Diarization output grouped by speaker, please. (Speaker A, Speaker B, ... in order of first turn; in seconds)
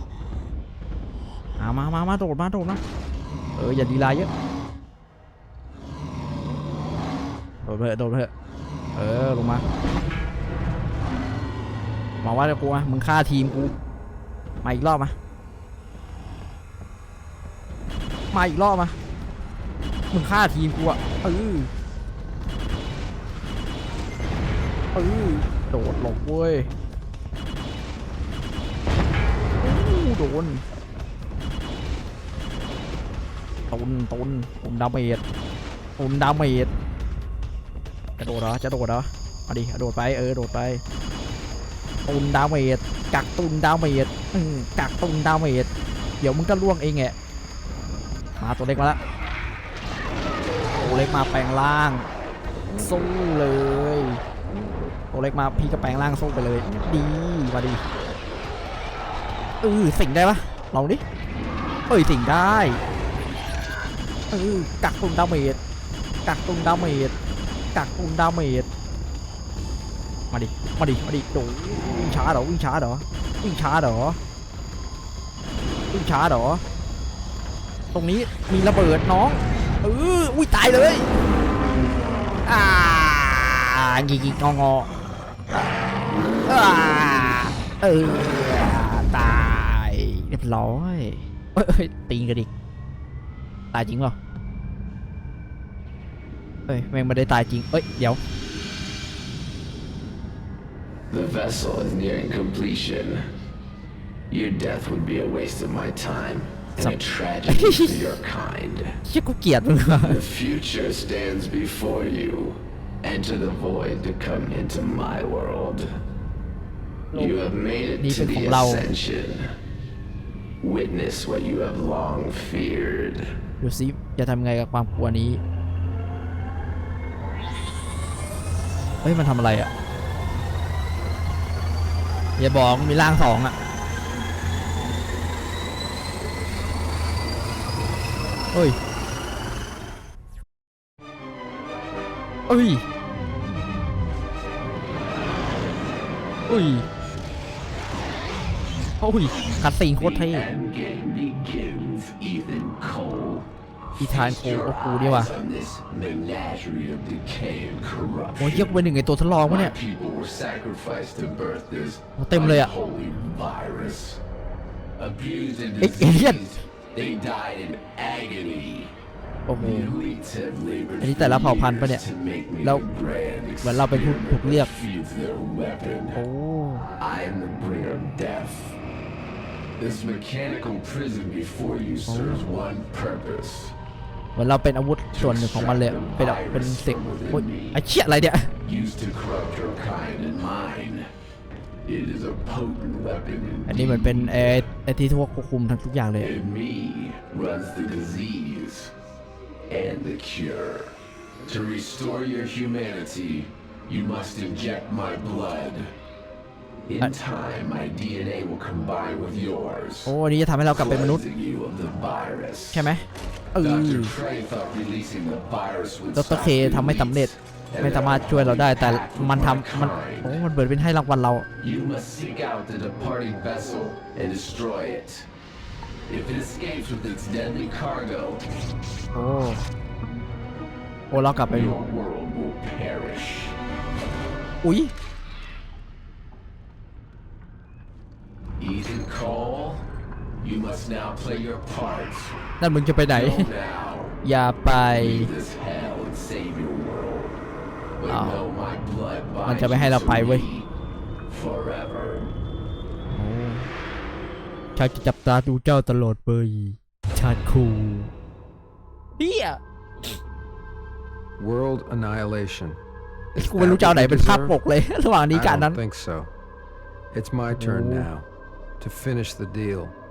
Speaker A: 1.6-2.8, 3.6-4.3, 7.6-8.3, 8.9-9.7, 12.2-13.7, 14.6-15.2, 18.3-19.0, 20.1-21.7, 24.9-26.7, 29.6-30.6, 33.7-35.2, 36.0-36.7, 38.2-40.8, 42.1-45.7, 46.2-47.1, 48.4-49.0, 50.8-52.1, 52.7-54.2, 55.1-57.8, 59.6-61.0, 61.9-62.8, 64.3-65.6, 66.2-67.1, 67.7-68.7, 70.3-74.2, 75.9-76.6, 77.9-81.1, 82.4-84.9, 86.5-92.5, 93.7-94.2, 96.7-98.2, 106.8-108.1, 109.0-110.2, 117.1-117.4, 118.0-118.9, 123.6-125.4, 129.0-129.7, 132.4-133.5, 142.5-142.8, 146.5-146.9, 149.0-150.5, 154.0-155.3, 158.4-159.7, 162.2-162.7, 165.8-166.6, 169.5-170.0, 171.0-172.0, 173.6-174.8, 176.1-176.9, 182.1-182.5, 184.3-188.5, 193.7-196.3, 210.1-211.2, 212.7-214.2, 216.2-221.5, 229.1-229.6, 231.1-231.8, 234.6-234.9, 242.6-243.5, 244.2-245.3, 248.1-248.4, 249.5-250.5, 253.1-253.7, 254.8-258.1, 259.2-260.2, 263.4-265.8, 267.5-268.1
Speaker B: 101.1-103.2, 104.3-109.0, 110.0-115.9, 117.1-119.5, 120.6-123.3, 149.9-158.8, 159.4-164.2, 165.0-168.9, 169.5-176.2, 177.0-178.8, 179.8-183.7, 185.1-187.8, 188.6-191.1, 191.8-194.5, 196.2-198.9, 199.7-205.9, 206.9-210.1, 210.7-212.9, 213.6-220.4, 221.6-225.3, 226.1-228.4, 231.5-233.6, 238.6-239.9, 240.4-242.4, 243.1-244.2, 244.9-247.4, 248.0-250.7, 251.3-252.3
Speaker C: 261.4-262.8, 263.3-264.6, 265.3-266.3, 267.1-268.3, 268.8-270.0